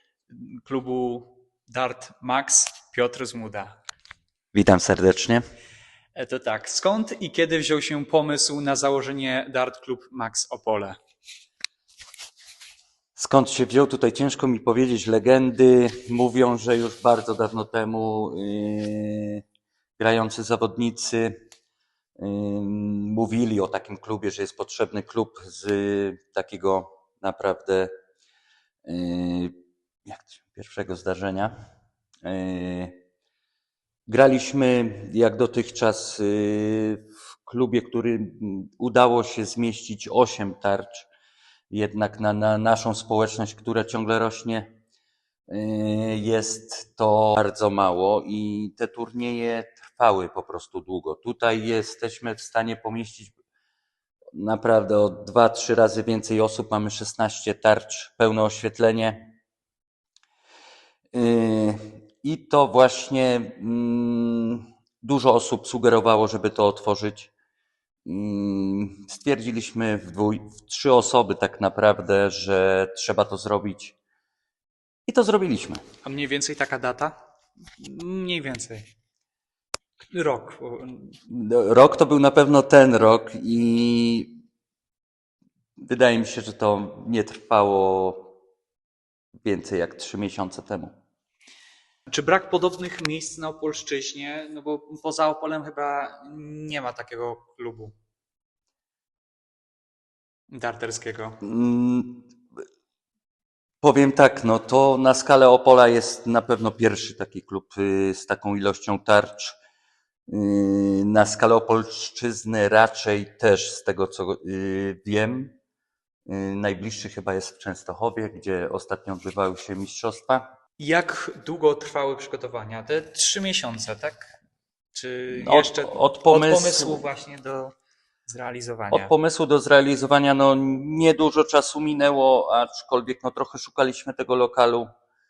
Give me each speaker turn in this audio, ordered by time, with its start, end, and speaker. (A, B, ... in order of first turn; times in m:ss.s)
0:00.3-0:03.8 A
0:04.5-0:05.4 B
0:06.2-0:11.0 A
0:13.2-0:19.4 B
0:20.0-0:21.4 B
0:22.2-0:27.9 B
0:28.8-0:29.5 B
0:30.0-0:31.5 B
0:32.2-0:33.0 B
0:34.1-0:41.1 B
0:41.7-0:44.7 B
0:45.5-0:53.4 B
0:54.3-0:59.4 B
1:01.1-1:07.3 B
1:08.1-1:14.0 B
1:15.1-1:15.8 B
1:16.0-1:17.2 A
1:17.8-1:18.9 A
1:20.0-1:21.2 A
1:21.3-1:24.4 B
1:25.8-1:28.4 B
1:29.4-1:30.9 B
1:32.1-1:37.9 A
1:40.5-1:41.4 A
1:41.4-1:42.3 B
1:43.8-1:49.6 B
1:50.3-1:55.6 B
1:56.3-2:00.5 B
2:00.8-2:04.4 A
2:04.9-2:07.7 A
2:05.3-2:07.0 B
2:08.3-2:09.1 A
2:08.9-2:14.9 B